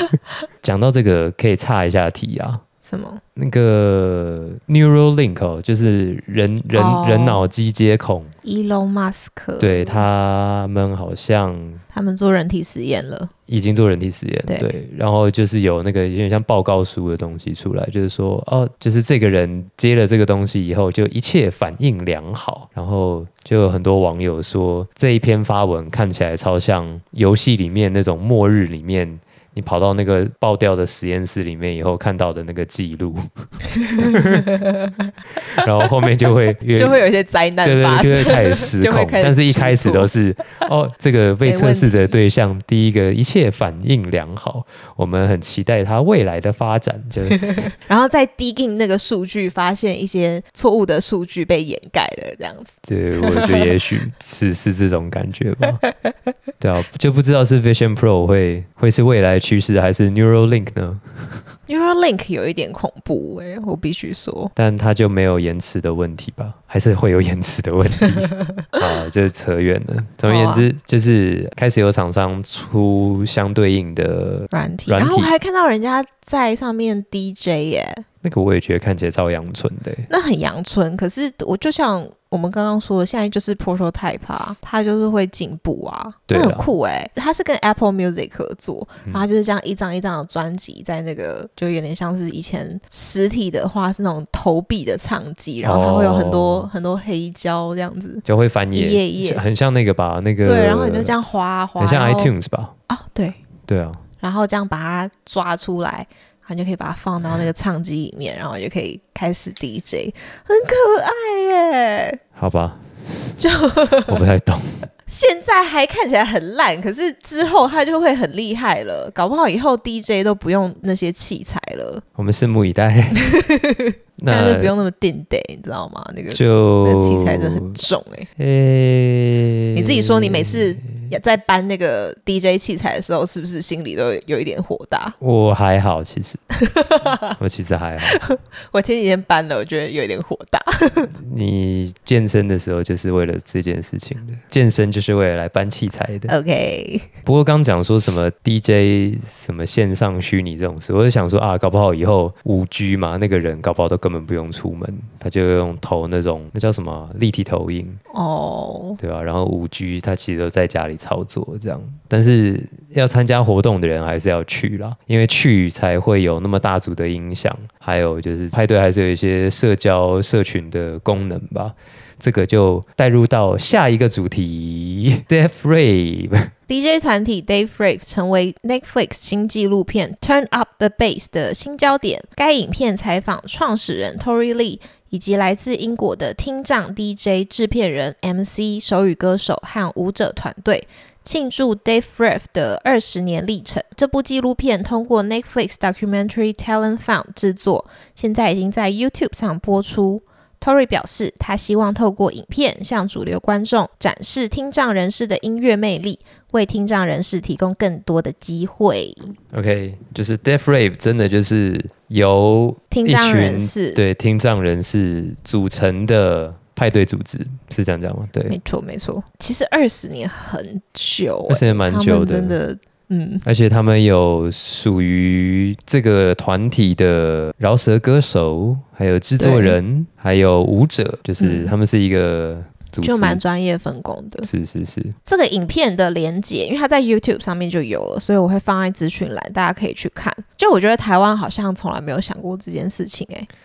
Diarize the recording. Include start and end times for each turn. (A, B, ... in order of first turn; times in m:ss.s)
0:00.6-0:02.6 A
0:02.8-0:03.2 B
0:03.4-0:08.3 A
0:06.7-0:07.5 B
0:08.4-0:10.0 B
0:09.6-0:11.8 A
0:11.9-0:13.3 B
0:13.5-0:33.3 A
0:14.5-0:14.7 B
0:33.8-0:35.1 B
0:33.8-0:34.6 A
0:35.3-0:37.0 A
0:36.7-0:40.1 B
0:37.6-0:47.4 A
0:41.4-0:42.2 B
0:47.5-0:53.7 B
0:52.8-0:55.8 A
0:56.6-1:01.4 A
1:01.7-1:04.5 B
1:04.6-1:15.3 A
1:10.3-1:10.6 B
1:14.5-1:18.0 B
1:18.2-1:20.1 A
1:20.1-1:39.4 B
1:26.3-1:26.7 A
1:35.6-1:36.7 A
1:38.2-1:41.2 A
1:40.4-1:42.3 B
1:41.8-1:42.7 A
1:42.9-1:43.4 B
1:43.7-1:44.0 A
1:44.2-1:52.2 B
1:52.4-1:53.4 A
1:53.4-1:54.2 B
1:54.0-1:54.9 A
1:55.1-2:02.0 B
2:02.2-2:03.3 A
2:03.1-2:08.3 B
2:04.2-2:04.7 A
2:06.3-2:07.8 A
2:08.4-2:11.1 A
2:09.7-2:15.2 B
2:15.2-2:16.4 A
2:16.6-2:17.3 B
2:17.3-2:18.2 A
2:18.1-2:21.1 B
2:21.2-2:26.3 A
2:26.3-2:27.1 B
2:27.2-2:38.0 A
2:38.1-2:39.0 B
2:39.0-2:56.5 A
2:56.7-3:29.3 B
3:29.5-3:38.6 A
3:32.9-3:34.0 B
3:38.5-3:43.4 B
3:41.5-3:42.6 A
3:43.4-3:53.4 A
3:49.4-3:49.8 B
3:51.4-3:51.7 B
3:53.0-3:54.5 B
3:54.4-3:55.2 A
3:55.2-4:03.5 B